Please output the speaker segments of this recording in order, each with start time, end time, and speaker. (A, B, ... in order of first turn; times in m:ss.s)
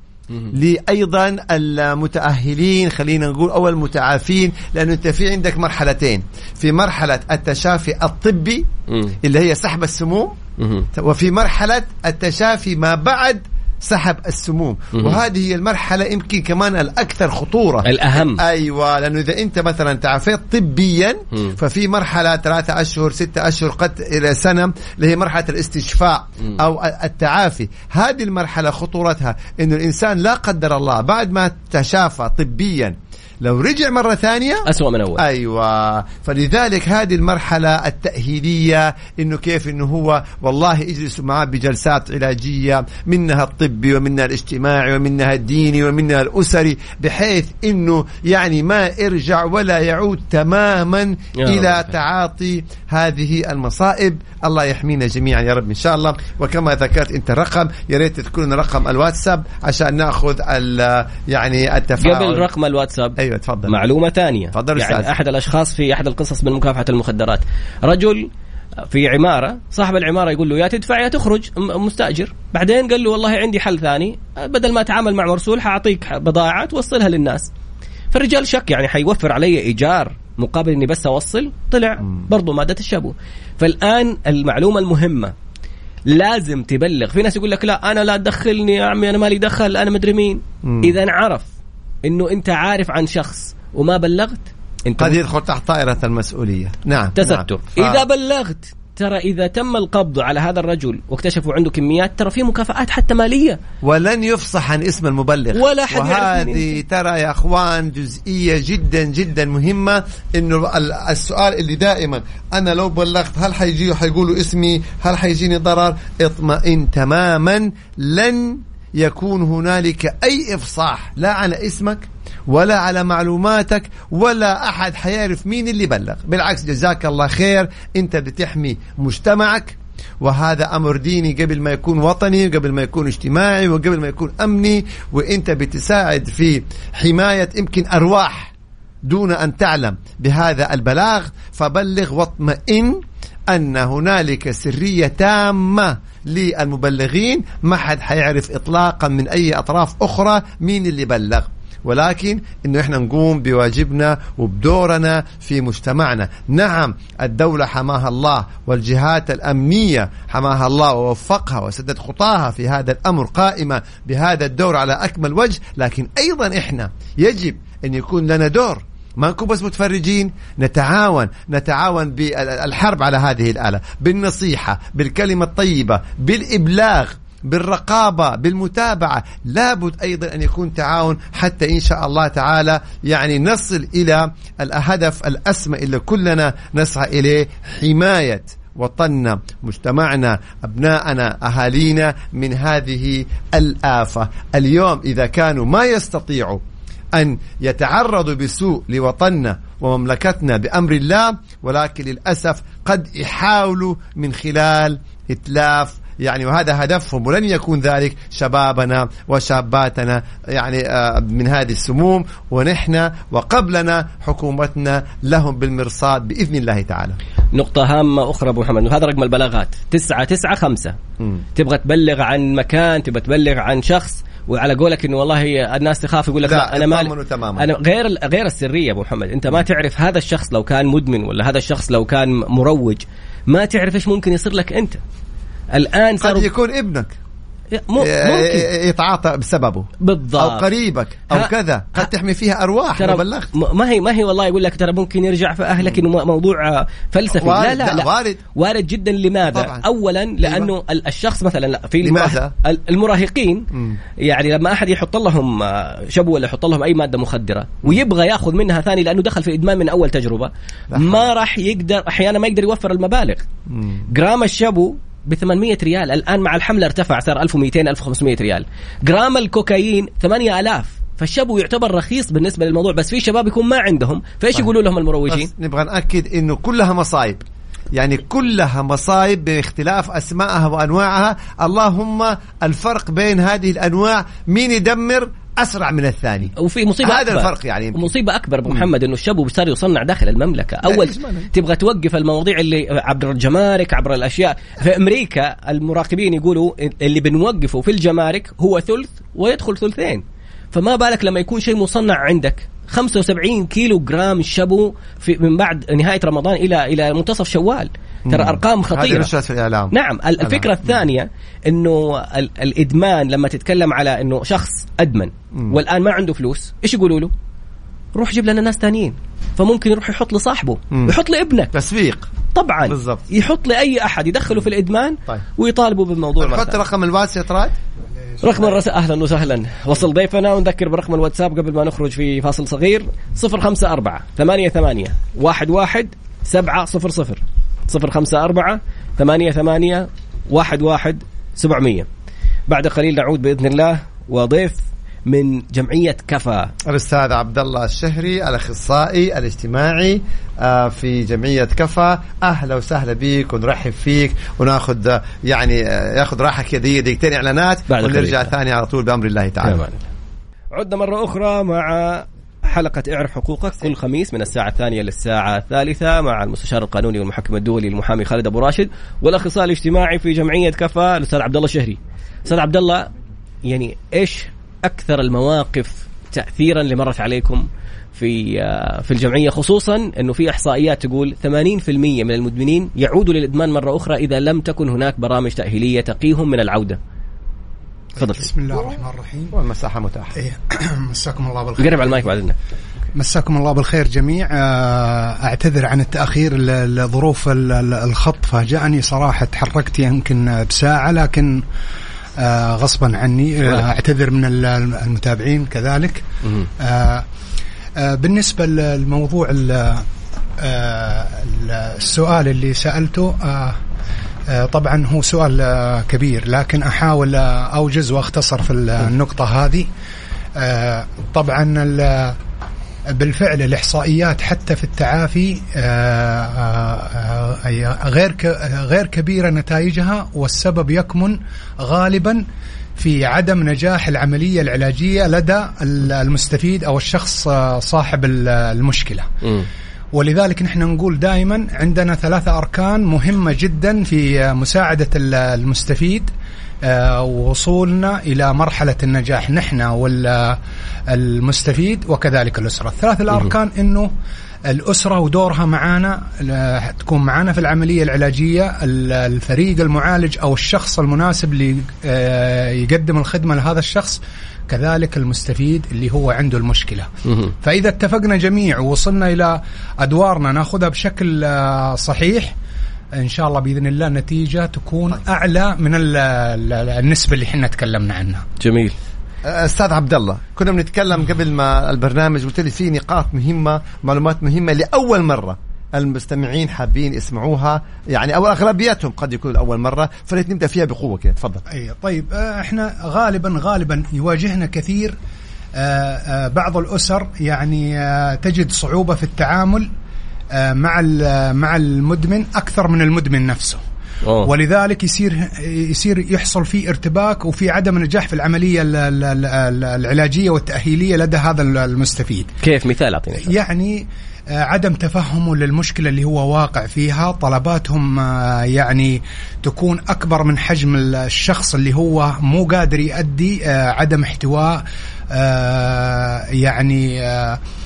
0:00.5-0:08.7 A
0:08.9-0:09.2 B
0:09.2-0:10.4 A
0:10.6-0:10.9 B
0:10.9-0:34.7 A
0:17.8-0:18.4 B
0:34.7-0:35.2 B
0:35.2-1:02.5 A
0:51.4-0:51.8 B
1:02.0-1:08.3 B
1:03.2-1:03.7 A
1:04.5-1:05.1 A
1:08.9-1:17.5 B
1:18.1-1:25.3 B
1:26.1-1:31.5 B
1:30.6-1:30.9 A
1:32.0-1:35.2 B
1:35.0-1:38.0 A
1:37.2-1:43.6 B
1:43.8-2:18.5 A
1:45.5-1:46.7 B
2:19.0-3:16.6 A
3:17.1-3:37.2 A
3:37.5-3:41.0 B
3:41.6-3:55.0 B
3:46.4-3:47.7 A
3:55.7-3:56.5 B
3:56.2-3:57.2 A
3:57.7-3:58.7 B
3:58.0-4:03.5 A
4:00.0-4:00.7 B
4:01.3-4:02.0 B
4:03.0-4:13.7 B
4:07.3-4:08.4 A
4:09.4-4:09.9 A
4:10.4-4:10.7 A
4:12.0-4:12.5 A
4:13.7-4:14.0 A
4:14.2-4:23.4 B
4:20.9-4:21.3 A
4:23.7-4:24.0 A
4:24.1-4:35.5 B
4:35.3-4:37.4 A
4:37.9-4:48.1 A
4:46.6-5:09.3 B
4:50.8-4:51.5 A
5:08.3-5:10.7 A
5:09.9-5:17.3 B
5:18.1-5:21.7 B
5:21.7-5:22.3 A
5:22.5-5:26.8 B
5:22.9-5:23.2 A
5:26.4-5:27.7 A
5:28.4-5:42.1 B
5:28.5-5:28.8 A
5:42.7-5:46.7 B
5:46.8-5:59.9 A
5:57.9-5:58.5 B
5:59.6-6:00.0 B
6:00.7-6:13.1 B
6:13.6-6:27.0 B
6:28.2-6:28.5 B
6:28.2-6:29.6 C
6:29.5-6:30.4 A
6:30.4-6:32.2 C
6:31.8-6:32.6 B
6:33.1-6:41.6 C
6:42.4-6:46.2 C
6:46.8-6:47.2 C
6:48.0-6:50.1 C
6:50.6-6:53.8 C
6:54.5-6:59.9 C
7:00.6-7:02.4 C
7:03.1-7:12.4 C
7:13.0-7:19.3 C
7:20.1-7:26.3 C
7:26.8-7:30.6 C
7:31.1-7:34.1 C
7:34.6-7:47.1 C
7:47.6-7:52.5 C
7:53.1-7:58.4 C
7:58.6-7:59.0 B
7:59.4-8:11.6 A
8:11.7-8:15.1 C
8:15.8-8:19.9 C
8:20.5-8:23.8 C
8:24.2-8:24.5 B
8:24.4-8:32.5 C
8:32.6-8:33.5 B
8:33.4-8:47.6 C